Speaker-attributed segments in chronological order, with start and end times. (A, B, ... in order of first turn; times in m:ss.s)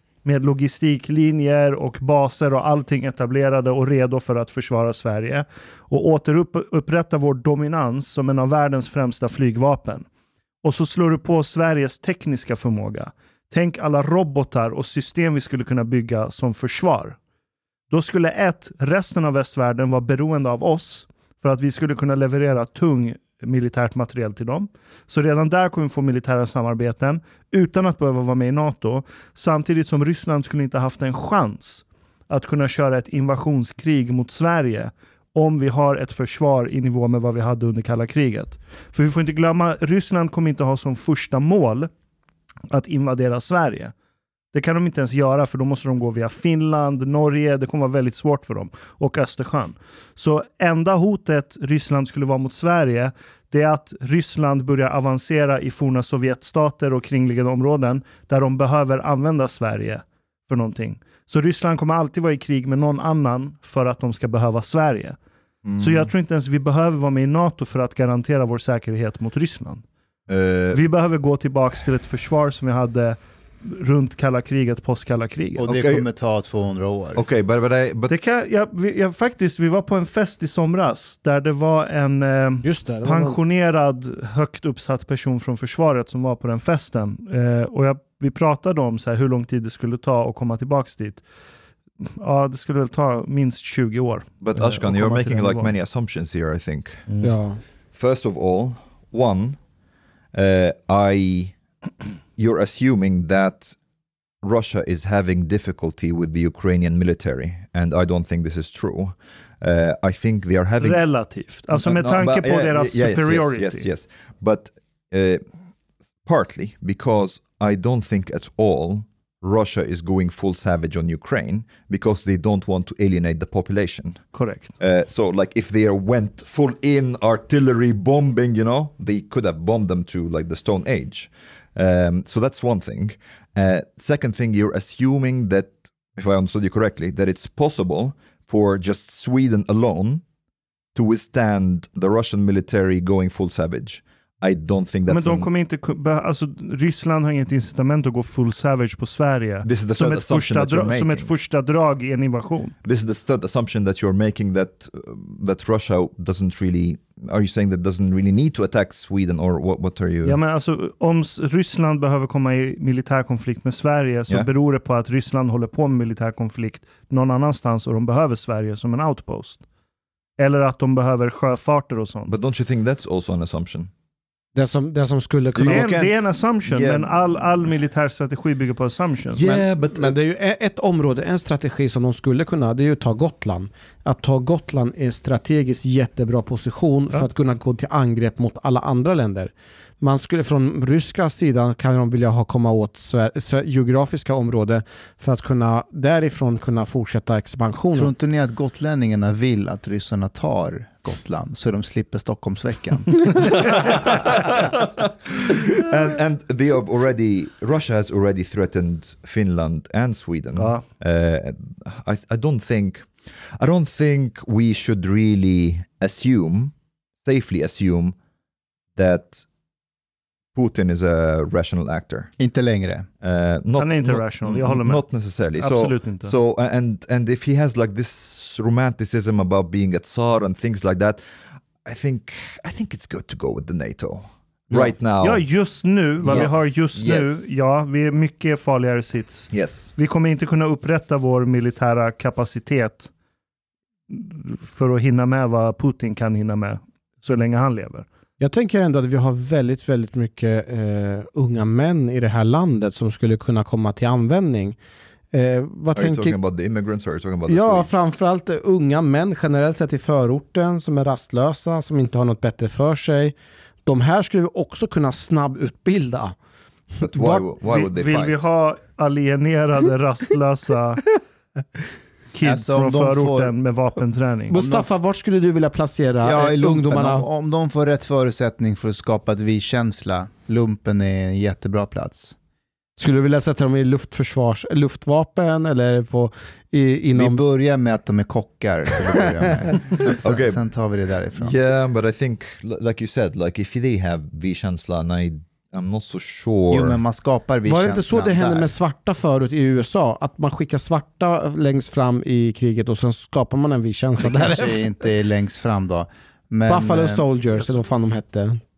0:00.2-0:10.1 A
0:10.6-0:17.2 A
0:17.9-0:41.9 A
0:42.7-0:43.9 A
0:44.5-1:05.2 A
1:05.6-1:06.1 B
1:05.8-1:09.9 A
1:10.3-1:10.8 B
1:10.7-1:15.7 A
1:15.6-1:17.2 C
1:15.7-1:16.1 B
1:17.2-1:18.2 B
1:18.1-1:31.2 A
1:22.6-1:23.4 D
1:32.0-1:35.8 A
1:34.4-1:37.0 B
1:37.1-1:37.4 A
1:37.2-1:37.6 D
1:37.9-1:39.6 B
1:40.3-1:41.6 B
1:42.4-1:43.8 B
1:44.4-1:55.4 B
1:50.8-1:53.9 A
1:56.2-2:20.2 B
2:04.3-2:04.8 A
2:21.0-2:25.5 B
2:25.1-2:32.8 A
2:29.6-2:31.3 B
2:32.8-2:40.4 B
2:40.2-2:49.6 A
2:50.4-2:52.4 A
2:52.3-2:53.9 B
2:54.6-2:56.0 D
2:55.6-2:57.7 B
2:55.6-2:59.4 A
2:59.3-3:00.2 B
2:59.4-3:18.1 D
3:17.9-3:23.5 C
3:23.7-3:38.2 B
3:30.6-3:30.9 A
3:39.0-3:39.5 B
3:40.5-3:42.3 B
3:42.4-3:43.1 C
3:43.2-3:51.2 B
3:43.8-3:46.4 A
3:51.7-3:57.5 B
3:54.7-4:03.1 A
3:59.5-3:59.9 B
4:04.1-4:08.1 A
4:08.4-4:14.8 D
4:15.3-4:16.4 D
4:16.0-4:18.0 B
4:17.5-4:26.4 D
4:27.0-4:27.5 D
4:27.0-4:28.4 B
4:27.7-4:31.1 A
4:32.3-4:34.6 A
4:32.4-4:33.6 C
4:34.5-4:37.3 D
4:34.5-4:34.9 C
4:36.2-4:42.4 C
4:43.0-4:47.5 D
4:47.1-4:51.6 C
4:50.2-4:50.6 B
4:51.4-4:57.0 B
4:56.7-4:58.7 C
4:57.6-5:04.9 D
5:04.2-5:07.3 C
5:06.7-5:08.6 D
5:07.6-5:07.8 A